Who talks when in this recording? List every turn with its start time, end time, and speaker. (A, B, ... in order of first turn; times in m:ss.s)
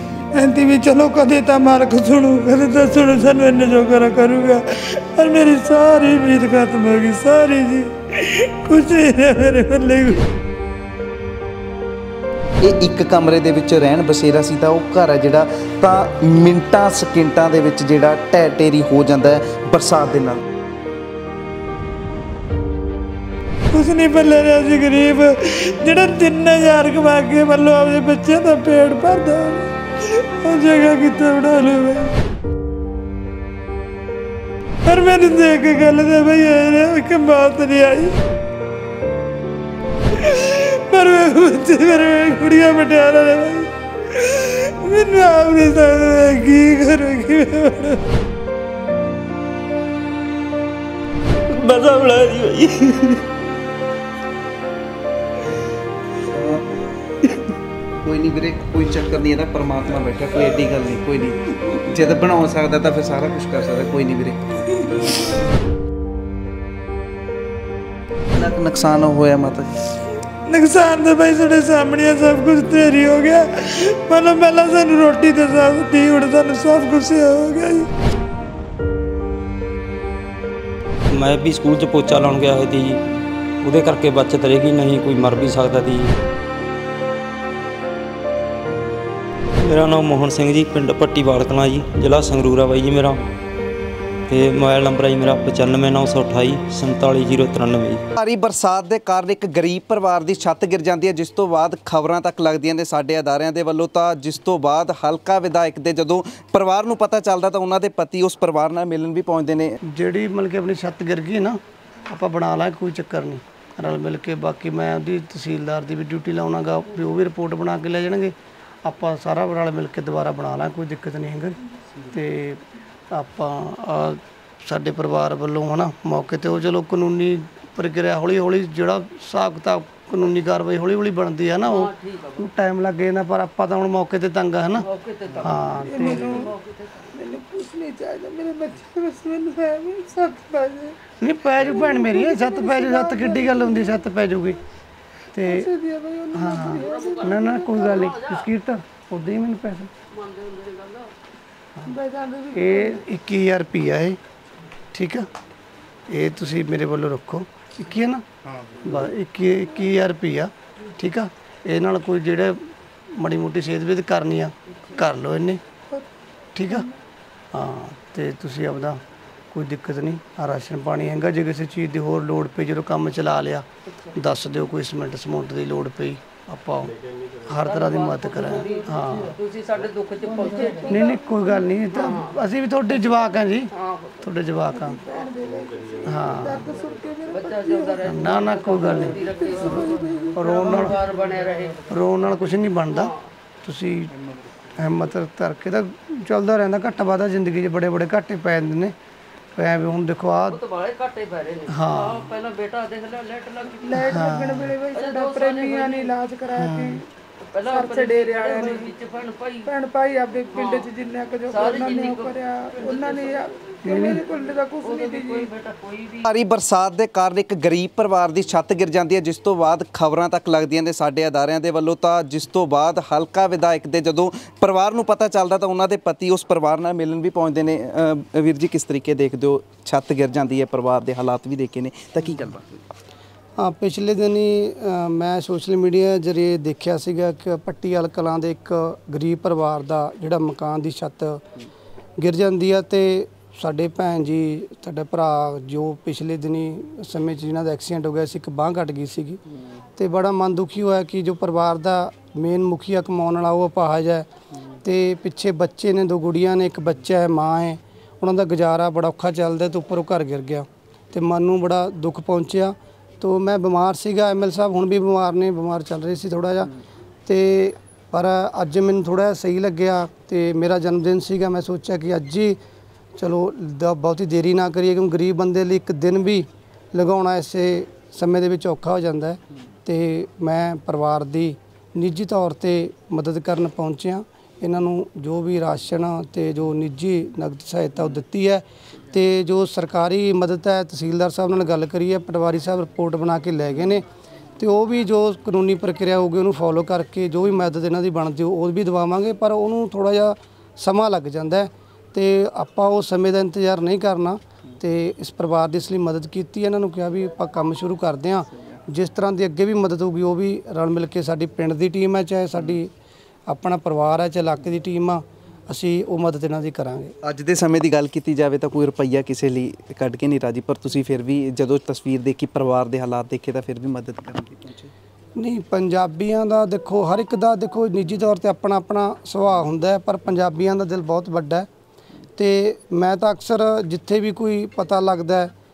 0:00.3-0:10.3 A
0:12.6-0:20.4 B
0:23.7-0:32.1 A
0:34.8-0:38.2 A
0:40.1-0:48.1 A
0:51.5-0:53.2 C
0:56.3-0:56.9 B
0:58.0-1:05.0 B
1:08.3-1:09.8 B
1:10.4-1:17.9 A
1:21.1-1:26.1 C
1:29.6-1:33.2 C
1:34.3-1:38.0 C
1:38.2-1:49.8 B
1:49.9-1:58.3 D
1:58.8-2:16.4 D
2:11.6-2:12.4 E
2:14.8-2:17.1 E
2:15.7-2:16.5 A
2:17.0-2:21.0 A
2:21.2-2:24.6 D
2:21.6-2:24.0 A
2:25.3-2:25.7 D
2:25.4-2:28.1 A
2:26.3-2:29.9 D
2:26.8-2:27.3 E
2:27.8-2:28.5 E
2:30.1-2:31.1 E
2:31.8-2:33.0 A
2:32.5-2:34.2 D
2:34.9-2:35.3 D
2:36.1-2:38.2 D
2:38.8-2:42.6 D
2:43.1-2:45.6 D
2:46.5-2:46.8 D
2:46.7-2:46.9 A
2:47.5-2:49.0 D
2:49.5-2:59.4 D
2:53.9-2:54.2 E
2:57.7-3:01.0 E
3:00.2-3:01.7 A
3:00.8-3:05.0 D
3:01.9-3:02.4 E
3:03.7-3:04.2 E
3:04.7-3:08.2 A
3:06.0-3:06.7 D
3:07.3-3:12.0 E
3:08.0-3:11.0 D
3:08.9-3:11.0 A
3:11.9-3:14.1 D
3:12.9-3:13.2 E
3:14.2-3:14.6 B
3:14.8-3:18.9 D
3:19.6-3:20.6 D
3:20.5-3:24.0 E
3:21.7-3:22.3 D
3:23.8-3:27.1 A
3:24.0-3:24.7 D
3:24.9-3:26.1 E
3:26.5-3:27.0 D
3:27.5-3:29.7 E
3:27.6-3:28.9 A
3:29.6-3:35.5 A
3:30.5-3:30.9 E
3:31.5-3:34.0 E
3:33.8-3:34.2 D
3:34.8-3:36.2 E
3:36.2-3:52.9 B
3:53.6-4:01.4 D
4:02.2-4:09.4 D
4:10.0-4:14.3 D
4:14.8-4:26.7 D
4:27.2-4:32.6 D
4:33.2-4:54.0 D
4:54.6-5:12.9 D
5:13.5-5:17.1 D
5:17.2-5:24.9 B
5:25.4-5:31.7 D
5:32.4-5:35.5 D